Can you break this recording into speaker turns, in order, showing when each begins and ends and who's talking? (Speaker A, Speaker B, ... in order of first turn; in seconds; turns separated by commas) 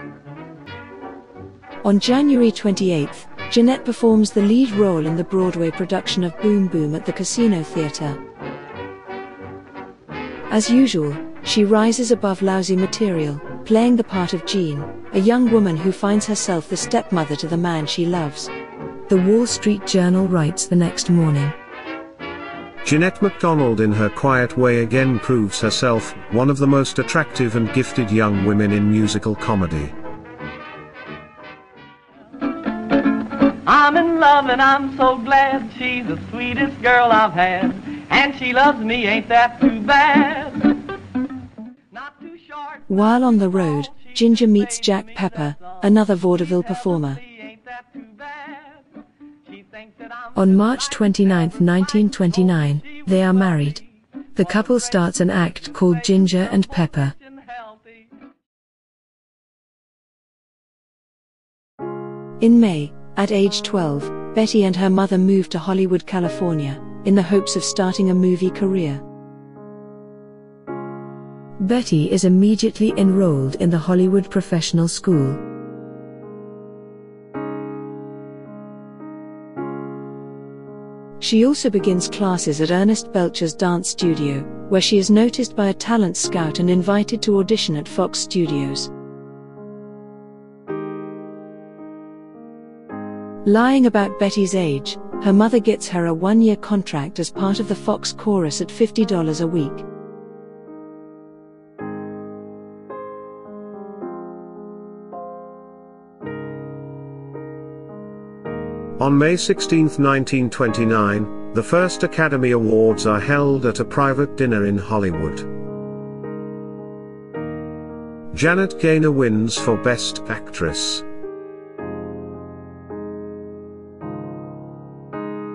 Speaker A: 1.8-8.2, Speaker A: 10.5-18.5, Speaker A: 19.1-21.6, Speaker B: 22.8-29.9, Speaker C: 33.7-40.7, Speaker C: 41.9-48.9, Speaker A: 42.9-47.2, Speaker C: 49.5-58.1, Speaker A: 50.3-53.8, Speaker A: 54.4-57.1, Speaker A: 62.4-69.0, Speaker A: 71.6-75.4, Speaker A: 81.2-88.9, Speaker A: 93.4-99.8, Speaker B: 109.0-115.5, Speaker B: 118.3-121.0